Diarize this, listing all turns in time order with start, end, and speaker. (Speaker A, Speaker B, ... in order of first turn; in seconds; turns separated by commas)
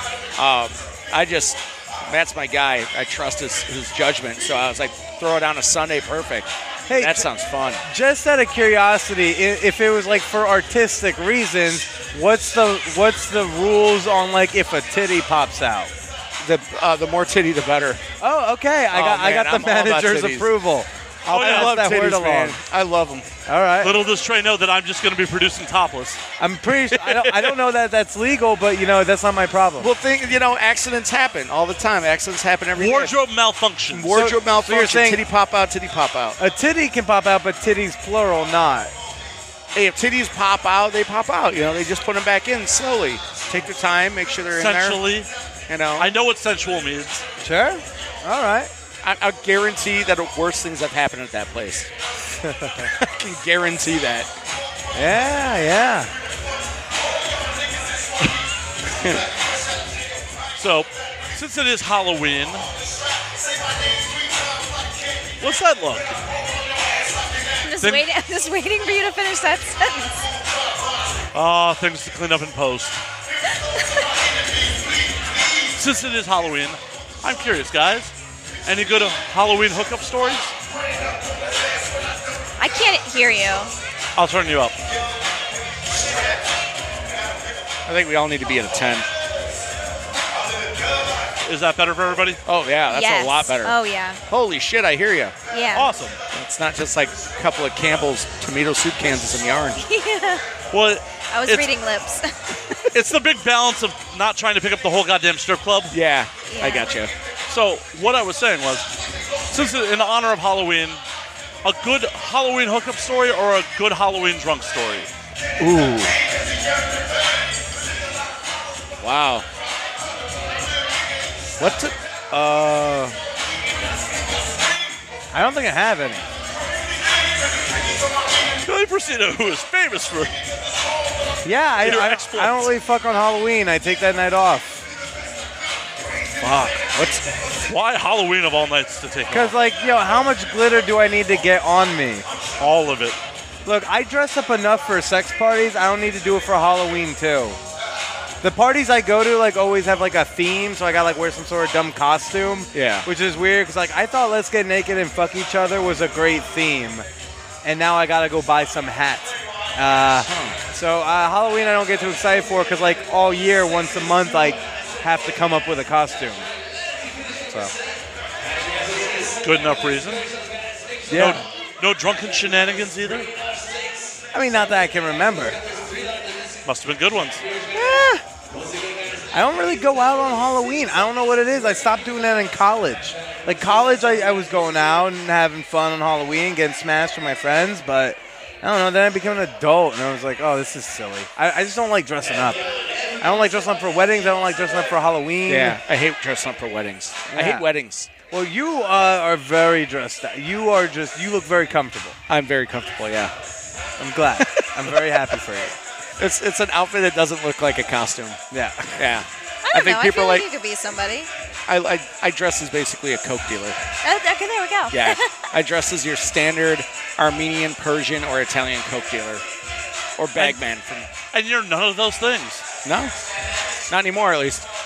Speaker A: 0.3-7.8, Speaker B: 6.9-7.3, Speaker B: 7.8-15.9, Speaker A: 16.4-18.0, Speaker B: 18.2-22.6, Speaker A: 18.9-20.5, Speaker C: 21.3-21.7, Speaker A: 21.3-23.3, Speaker B: 23.5-24.0, Speaker C: 23.8-26.2, Speaker B: 26.4-29.9, Speaker A: 29.8-33.1, Speaker C: 32.8-34.2, Speaker A: 33.9-36.4, Speaker B: 34.1-35.2, Speaker B: 36.4-38.9, Speaker A: 39.7-45.0, Speaker C: 44.5-45.3, Speaker A: 45.7-46.1, Speaker C: 46.0-47.2, Speaker B: 47.4-48.7, Speaker A: 49.0-51.9, Speaker B: 52.4-52.9, Speaker A: 53.0-54.3, Speaker B: 54.9-56.1, Speaker A: 58.9-59.2, Speaker C: 60.6-62.6, Speaker C: 65.4-66.1, Speaker D: 67.6-70.2, Speaker C: 71.3-73.0, Speaker C: 75.8-78.1, Speaker C: 78.7-80.5, Speaker D: 82.6-83.7, Speaker C: 84.2-84.8, Speaker A: 87.8-89.1, Speaker C: 91.4-92.4, Speaker A: 92.5-93.7, Speaker D: 92.9-94.2, Speaker A: 94.3-95.3, Speaker D: 95.5-95.9, Speaker C: 95.7-96.2, Speaker A: 96.3-99.9, Speaker D: 99.9-100.4, Speaker C: 100.7-101.7, Speaker D: 101.3-102.8, Speaker C: 102.9-105.9, Speaker A: 105.9-107.1, Speaker D: 106.5-106.9, Speaker C: 107.5-108.9, Speaker C: 109.5-111.0, Speaker C: 111.6-115.1, Speaker A: 115.6-116.1, Speaker A: 119.0-119.5, Speaker A: 121.6-123.1, Speaker B: 125.3-126.3, Speaker C: 128.6-130.3, Speaker B: 131.4-134.8, Speaker C: 131.8-132.7, Speaker A: 136.4-137.2, Speaker C: 137.7-139.5, Speaker B: 139.3-142.2, Speaker C: 142.6-143.2, Speaker B: 143.6-147.6, Speaker B: 148.4-157.1, Speaker A: 152.7-153.1, Speaker B: 157.6-166.5, Speaker A: 160.2-160.6, Speaker B: 167.5-167.7, Speaker C: 169.4-170.2, Speaker B: 171.1-171.4, Speaker C: 171.1-173.3, Speaker B: 174.3-175.6, Speaker C: 176.7-177.4, Speaker B: 177.7-178.2, Speaker B: 179.3-192.6, Speaker B: 193.2-195.8, Speaker A: 195.5-198.1, Speaker B: 197.3-197.7, Speaker B: 198.3-202.2, Speaker A: 202.3-203.3, Speaker B: 204.0-205.8, Speaker A: 204.4-205.0, Speaker A: 206.2-208.4, Speaker B: 208.5-209.2, Speaker A: 209.0-210.4, Speaker D: 209.6-211.3, Speaker A: 211.7-213.8, Speaker D: 214.0-215.5, Speaker A: 214.9-219.4, Speaker A: 220.2-221.1, Speaker C: 220.3-220.6, Speaker C: 221.3-222.6, Speaker A: 222.8-223.1, Speaker A: 223.9-224.7